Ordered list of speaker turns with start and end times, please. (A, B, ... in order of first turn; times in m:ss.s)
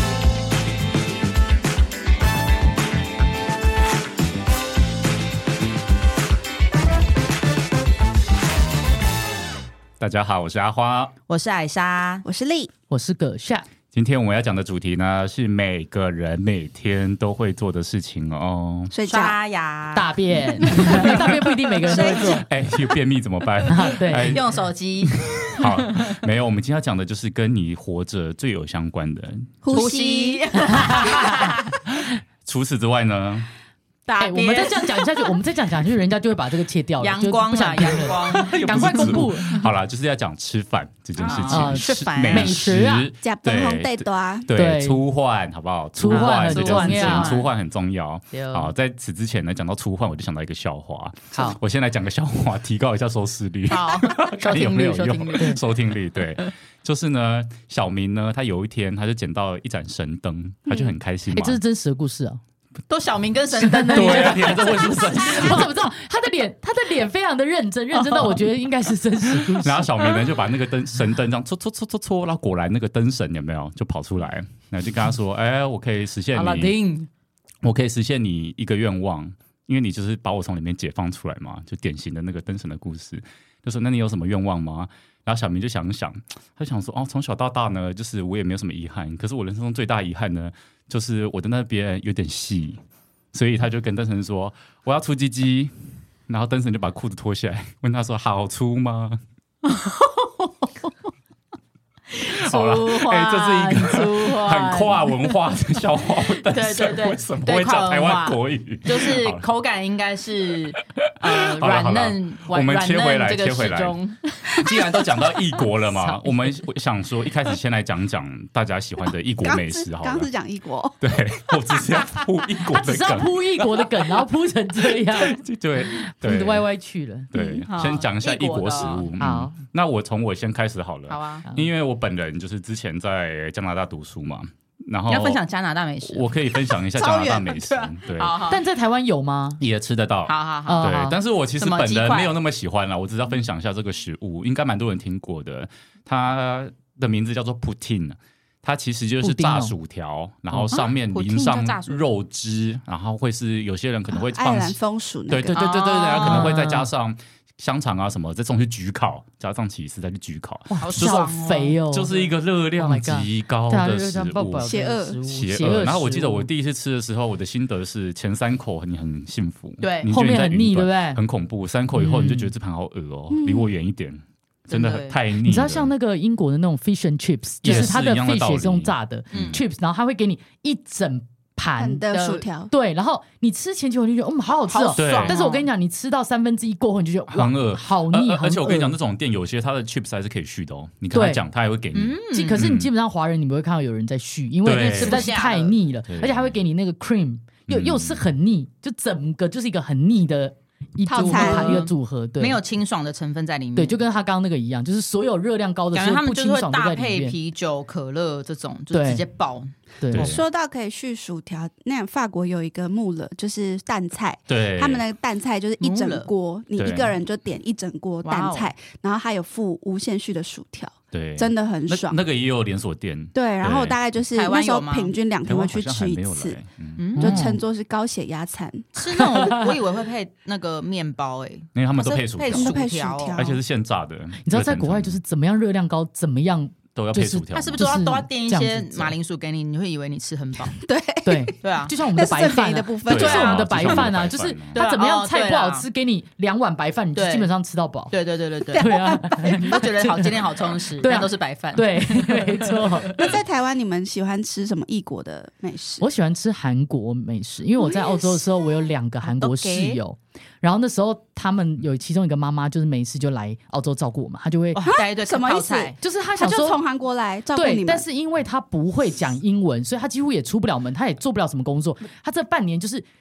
0:10.0-0:11.1 A
0:11.3-0:12.2 B
0:12.2-0:12.7 C
0:12.9-0:13.6 D
0:13.9-0:18.9 A
0:18.9-0:19.4 C
0:19.1-0:21.2 B
0:20.0-0:22.4 D
0:21.8-0:22.4 B
0:22.0-0:29.6 A
0:23.7-0:24.4 D
0:24.1-0:26.2 B
0:29.6-0:31.3 C
0:29.7-0:31.8 B
0:30.7-0:31.5 D
0:31.9-0:33.5 A
0:34.1-0:35.3 B
0:34.2-0:39.6 D
0:37.0-0:39.3 B
0:38.3-1:01.6 A
0:41.2-0:42.6 B
0:41.4-0:43.1 D
0:43.2-0:44.5 C
0:44.5-0:45.0 D
0:46.0-0:47.4 D
0:46.1-0:47.5 B
0:48.4-0:48.7 B
0:53.7-0:55.6 B
1:01.3-1:02.4 D
1:02.9-1:05.6 B
1:03.6-1:10.0 D
1:03.9-1:05.8 A
1:07.9-1:08.4 B
1:09.3-1:16.8 A
1:16.3-1:17.1 B
1:17.6-1:32.8 A
1:33.3-1:35.7 A
1:36.3-1:39.2 A
1:39.6-1:40.9 B
1:42.1-1:45.4 B
1:42.2-1:49.4 A
1:46.4-1:54.7 B
1:51.0-1:54.0 A
1:54.5-2:00.3 A
1:56.0-1:56.3 D
1:59.4-2:01.8 C
2:01.0-2:04.2 A
2:02.7-2:05.4 D
2:04.8-2:06.7 A
2:05.9-2:07.3 D
2:07.3-2:15.4 A
2:07.4-2:07.6 C
2:07.7-2:09.1 B
2:09.2-2:09.6 D
2:11.1-2:11.4 B
2:15.1-2:18.6 B
2:16.1-2:18.4 A
2:18.5-2:19.6 D
2:19.6-2:34.8 A
2:20.3-2:20.9 B
2:20.7-2:21.2 D
2:21.6-2:22.3 B
2:29.2-2:29.7 D
2:30.7-2:32.0 B
2:34.1-2:35.6 C
2:35.3-2:41.3 A
2:35.6-2:36.6 B
2:36.2-2:36.9 D
2:40.7-2:42.1 D
2:40.8-2:42.3 B
2:41.9-2:44.7 A
2:42.8-2:46.5 D
2:44.6-2:45.2 C
2:45.3-2:55.9 A
2:49.8-2:50.1 B
2:50.1-2:51.2 D
2:51.9-2:52.5 D
2:53.3-2:53.7 C
2:54.7-2:55.2 B
2:55.4-3:02.0 D
2:57.6-2:59.6 A
2:59.3-2:59.6 B
3:01.8-3:02.7 C
3:02.1-3:02.4 B
3:02.7-3:09.0 D
3:04.7-3:05.7 B
3:05.0-3:05.4 A
3:07.3-3:12.9 A
3:11.1-3:11.4 D
3:11.9-3:12.7 B
3:12.3-3:22.6 D
3:14.6-3:15.2 A
3:14.8-3:15.8 B
3:16.1-3:16.6 A
3:17.7-3:18.3 A
3:21.1-3:21.8 C
3:21.2-3:24.0 B
3:23.8-3:27.4 D
3:25.9-3:29.7 B
3:28.9-3:29.2 D
3:30.0-3:30.4 D
3:30.1-3:30.4 A
3:30.2-3:42.2 C
3:34.5-3:35.0 A
3:35.8-3:36.3 B
3:36.8-3:37.2 A
3:38.2-3:38.7 B
3:41.1-3:44.0 A
3:43.3-3:46.6 C
3:44.3-3:45.1 B
3:45.5-3:47.0 A
3:47.0-3:47.4 B
3:47.2-3:48.9 C
3:47.2-3:47.6 D
3:48.9-3:53.4 B
3:49.2-3:49.7 D
3:51.8-3:55.2 A
3:52.5-3:53.6 C
3:54.4-3:59.2 D
3:57.0-3:57.8 A
3:57.5-4:00.8 B
4:00.7-4:03.6 C
4:01.2-4:08.1 D
4:01.6-4:01.9 B
4:03.1-4:04.8 A
4:03.1-4:04.1 B
4:04.7-4:05.8 B
4:07.2-4:07.5 B
4:08.1-4:13.3 B
4:08.7-4:09.8 C
4:08.8-4:10.4 D
4:11.0-4:13.3 D
4:13.2-4:16.0 C
4:16.0-4:24.8 D
4:17.8-4:18.8 C
4:19.3-4:20.0 B
4:24.8-4:26.0 B
4:24.8-4:28.0 C
4:26.0-4:26.8 D
4:27.6-4:33.0 D